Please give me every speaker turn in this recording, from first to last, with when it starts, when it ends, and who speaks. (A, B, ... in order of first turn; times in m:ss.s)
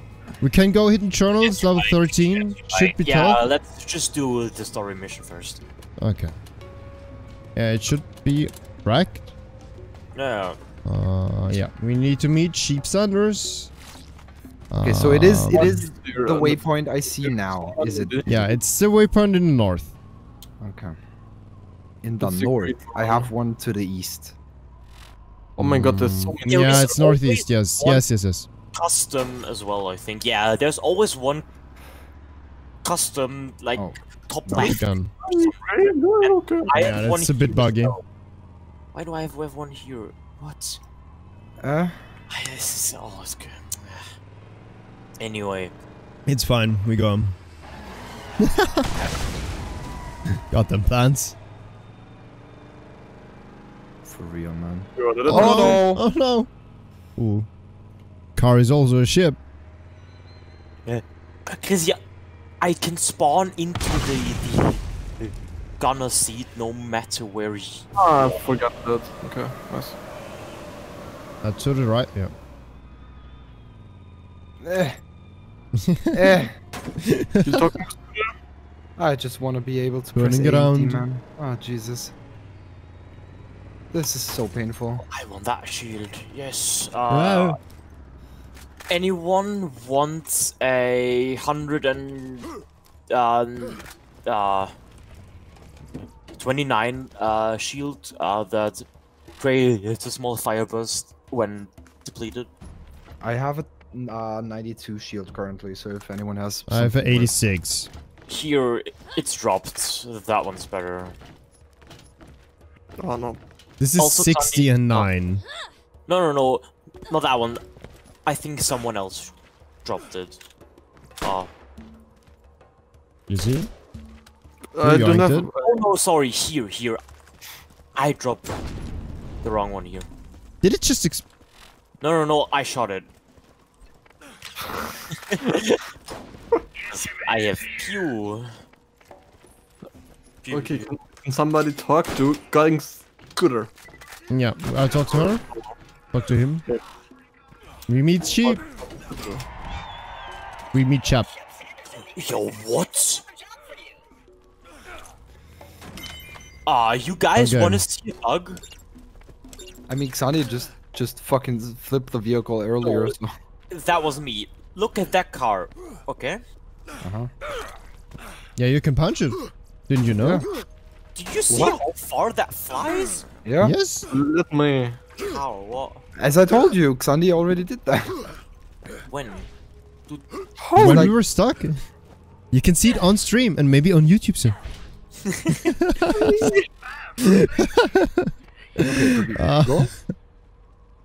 0:00.4-0:03.4 A
0:01.4-0:05.6 B
0:06.0-0:06.3 A
0:07.6-0:09.2 A
0:10.1-0:10.6 B
0:10.8-0:13.7 A
0:14.7-0:15.9 A
0:14.8-0:18.2 C
0:15.5-0:18.4 D
0:18.2-0:19.9 A
0:20.6-0:21.0 C
0:22.0-0:24.3 C
0:22.2-0:23.3 D
0:25.6-0:26.9 D
0:25.6-0:28.5 A
0:26.5-0:28.0 B
0:28.7-0:31.4 B
0:32.8-0:35.6 B
0:33.8-0:34.7 C
0:34.6-0:35.1 A
0:35.3-0:36.7 D
0:36.2-0:38.0 B
0:36.7-0:38.0 A
0:38.9-0:40.8 B
0:41.6-0:42.0 C
0:42.3-0:44.0 B
0:45.2-0:45.7 B
0:46.2-0:47.4 A
0:48.6-0:48.9 A
0:50.5-0:51.4 A
0:54.0-0:56.0 C
0:55.0-0:55.8 D
0:55.3-0:56.5 A
0:57.2-0:57.5 A
0:58.4-0:59.4 A
1:00.8-1:02.0 B
1:02.6-1:07.9 B
1:07.9-1:10.0 D
1:11.4-1:12.3 A
1:14.6-1:15.0 C
1:15.9-1:16.3 A
1:16.1-1:16.5 C
1:17.0-1:17.7 A
1:17.4-1:18.3 D
1:19.0-1:22.1 C
1:20.1-1:21.0 A
1:23.9-1:25.0 C
1:25.0-1:27.6 B
1:27.1-1:27.6 A
1:28.9-1:32.5 B
1:33.1-1:34.7 B
1:36.3-1:38.8 B
1:39.4-1:42.5 B
1:43.2-1:47.3 C
1:46.7-1:47.9 A
1:48.3-1:51.2 B
1:53.0-1:53.4 D
1:53.8-1:55.4 A
1:54.0-1:55.1 B
1:56.1-1:57.6 B
1:58.2-2:00.4 B
2:01.2-2:01.5 B
2:03.3-2:03.7 A
2:04.7-2:05.8 D
2:04.8-2:05.5 A
2:05.6-2:07.0 B
2:07.9-2:08.6 B
2:09.4-2:10.1 B
2:10.6-2:11.2 A
2:12.0-2:13.1 B
2:15.3-2:15.8 B
2:16.9-2:18.5 B
2:20.4-2:20.9 B
2:20.5-2:23.7 D
2:24.3-2:25.4 A
2:26.1-2:26.6 A
2:27.9-2:28.6 A
2:28.4-2:29.4 D
2:30.7-2:31.3 A
2:32.1-2:33.2 B
2:36.6-2:38.6 B
2:37.4-2:37.8 A
2:39.9-2:43.3 C
2:42.8-2:43.1 B
2:43.7-2:46.4 B
2:47.0-2:47.3 C
2:48.6-2:50.5 A
2:50.2-2:50.5 C
2:51.1-2:53.2 B
2:51.5-2:51.8 C
2:53.4-2:53.7 C
2:53.6-2:54.1 A
2:54.1-2:55.0 D
2:55.2-2:56.0 B
2:56.2-2:58.2 C
2:59.0-2:59.5 B
3:00.6-3:01.1 D
3:00.8-3:01.1 C
3:00.8-3:01.8 A
3:02.5-3:04.6 A
3:05.2-3:05.6 B
3:05.6-3:06.5 A
3:07.2-3:08.3 A
3:08.8-3:09.9 C
3:09.4-3:10.0 A